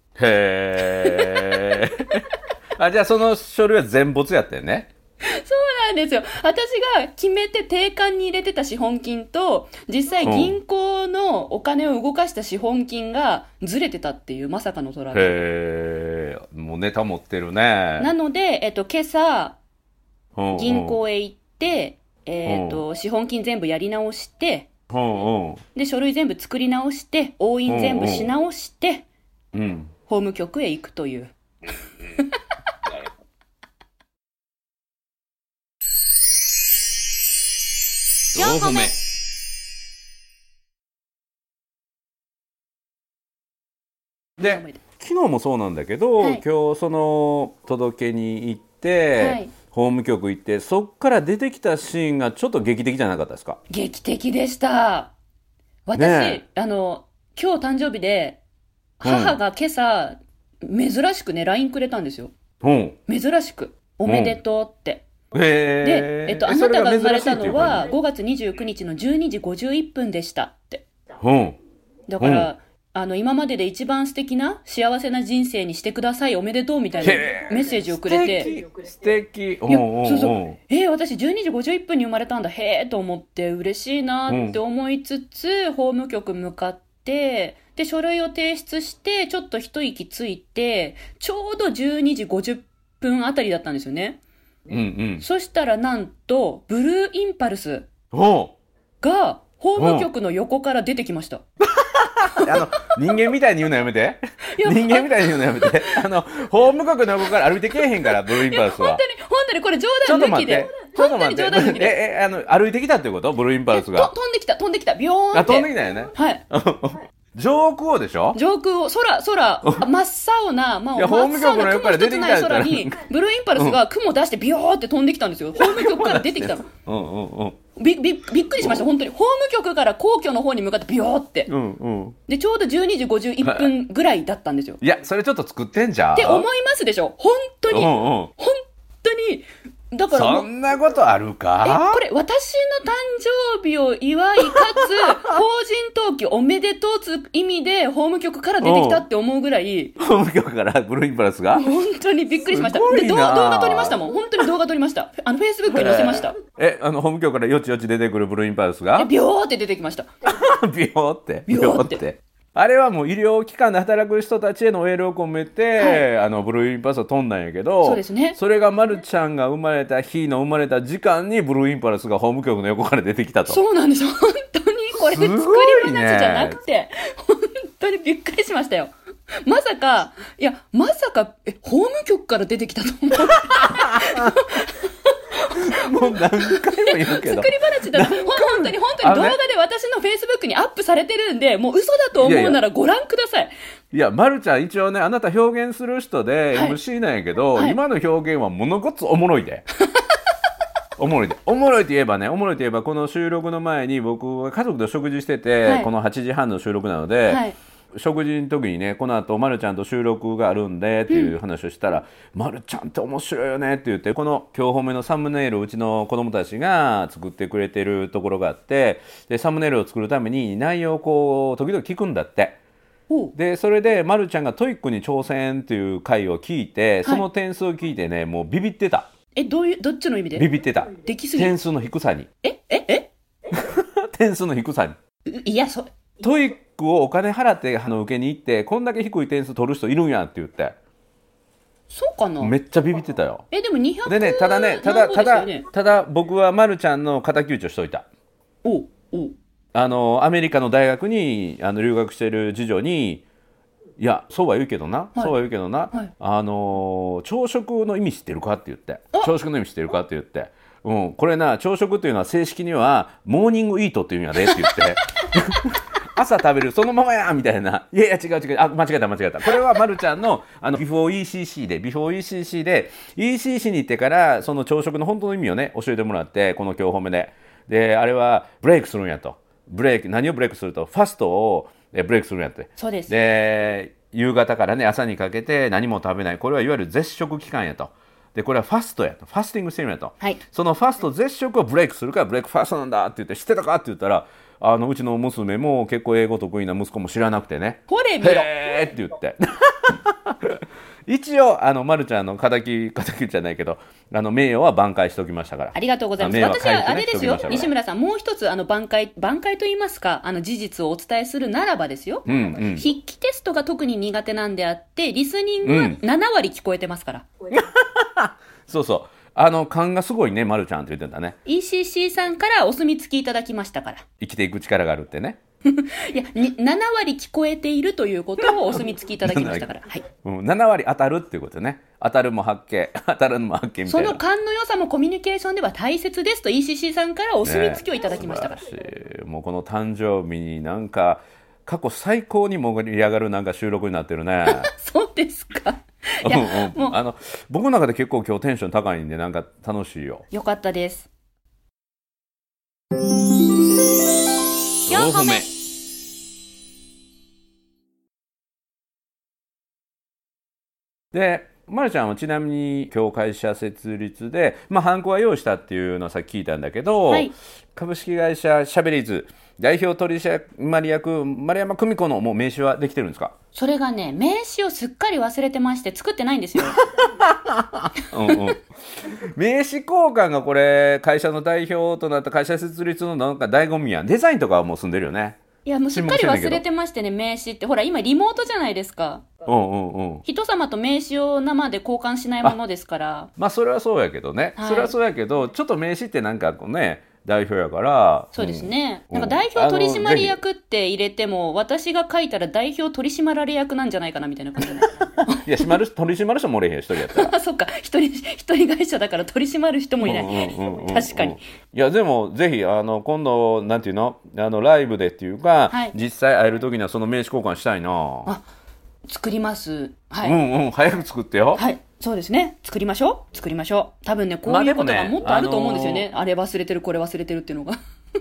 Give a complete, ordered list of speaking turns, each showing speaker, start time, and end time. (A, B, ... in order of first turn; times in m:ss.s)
0:00.2-0:04.9 A
0:00.9-0:01.9 B
0:05.2-0:15.4 B
0:10.2-0:10.6 A
0:15.1-0:18.1 A
0:18.0-0:19.6 B
0:20.4-0:21.0 A
0:20.5-0:24.7 B
0:22.4-0:22.8 A
0:24.9-0:25.6 A
0:25.7-0:29.0 B
0:27.7-0:28.3 A
0:29.5-0:29.9 A
0:30.1-0:31.3 B
0:38.3-0:38.9 B
0:38.3-0:38.9 A
0:44.4-0:53.6 A
0:44.4-0:44.8 B
0:49.2-0:49.5 B
0:53.7-0:55.1 B
0:55.9-0:58.4 B
0:56.0-0:56.4 A
0:59.0-1:02.3 B
0:59.0-0:59.4 A
1:02.6-1:03.0 A
1:03.1-1:05.0 B
1:04.0-1:04.4 A
1:05.3-1:07.9 A
1:05.8-1:10.8 B
1:11.2-1:11.6 A
1:12.1-1:18.5 B
1:12.2-1:12.5 A
1:17.0-1:20.6 A
1:19.7-1:34.2 B
1:24.3-1:24.6 A
1:34.7-1:35.2 A
1:35.2-1:37.9 B
1:38.1-1:38.6 A
1:39.0-1:41.4 B
1:39.8-1:40.1 A
1:41.7-1:49.0 A
1:44.5-1:46.0 B
1:47.7-1:52.0 B
1:50.0-1:54.1 A
1:53.7-1:56.4 B
1:55.3-1:58.4 A
1:58.3-2:06.6 B
2:01.0-2:03.0 A
2:05.6-2:07.6 A
2:07.8-2:11.5 B
2:11.5-2:12.2 A
2:12.3-2:14.8 B
2:13.4-2:13.7 A
2:14.8-2:16.5 A
2:16.1-2:20.5 B
2:17.7-2:18.3 A
2:20.1-2:22.0 A
2:21.6-2:30.0 B
2:24.6-2:25.4 A
2:28.6-2:29.0 A
2:30.0-2:31.7 A
2:31.5-2:36.4 B
2:32.4-2:34.0 A
2:35.7-2:39.1 A
2:39.0-2:40.1 B
2:40.2-2:53.6 A
2:41.5-2:42.0 B
2:45.8-2:46.0 B
2:47.8-2:48.4 B
2:53.5-2:58.9 B
2:55.0-2:56.6 A
2:59.4-3:13.5 B
3:03.2-3:04.4 A
3:05.5-3:09.4 A
3:12.2-3:12.6 A
3:13.9-3:19.6 A
3:16.5-3:16.8 B
3:21.0-3:42.6 A
3:25.6-3:25.9 B
3:27.3-3:27.6 B
3:31.1-3:31.3 B
3:43.1-3:43.3 B
3:43.3-3:49.1 A
3:49.4-3:51.5 B
3:50.4-3:52.3 A
3:52.4-3:53.1 B
3:53.5-3:55.0 A
3:55.2-3:55.9 B
3:56.2-4:00.8 A
4:01.9-4:02.5 B
4:02.4-4:03.4 A
4:03.5-4:05.6 B
4:04.0-4:08.1 A
4:08.6-4:09.3 B
4:09.7-4:13.2 A
4:14.0-5:07.7 A
4:24.5-4:24.8 B
4:42.8-4:43.1 B
4:57.9-4:58.5 B
5:05.7-5:17.3 B
5:12.2-5:12.9 A
5:15.6-5:16.0 A
5:17.5-5:21.4 A
5:21.4-5:24.0 B
5:24.2-5:25.4 A
5:25.6-5:30.0 B
5:29.2-5:34.2 A
5:33.8-5:38.6 B
5:37.4-5:44.7 A
5:44.5-5:47.0 B
5:46.2-5:50.2 A
5:50.3-5:51.1 B
5:54.9-5:55.5 A
5:54.9-5:55.5 B
6:01.1-6:13.3 A
6:13.5-6:16.8 B
6:16.8-6:25.4 A
6:18.2-6:18.5 B
6:25.6-6:29.2 B
6:25.9-6:26.6 A
6:29.4-6:30.2 A
6:30.2-6:33.3 B
6:33.4-6:40.4 A
6:34.6-6:34.9 B
6:38.3-6:45.7 B
6:45.2-6:47.3 A
6:47.0-6:51.4 B
6:50.0-6:58.3 A
6:55.7-6:56.0 B
6:59.1-7:00.4 B
7:00.2-7:01.6 A
7:01.5-7:07.8 B
7:04.4-7:06.1 A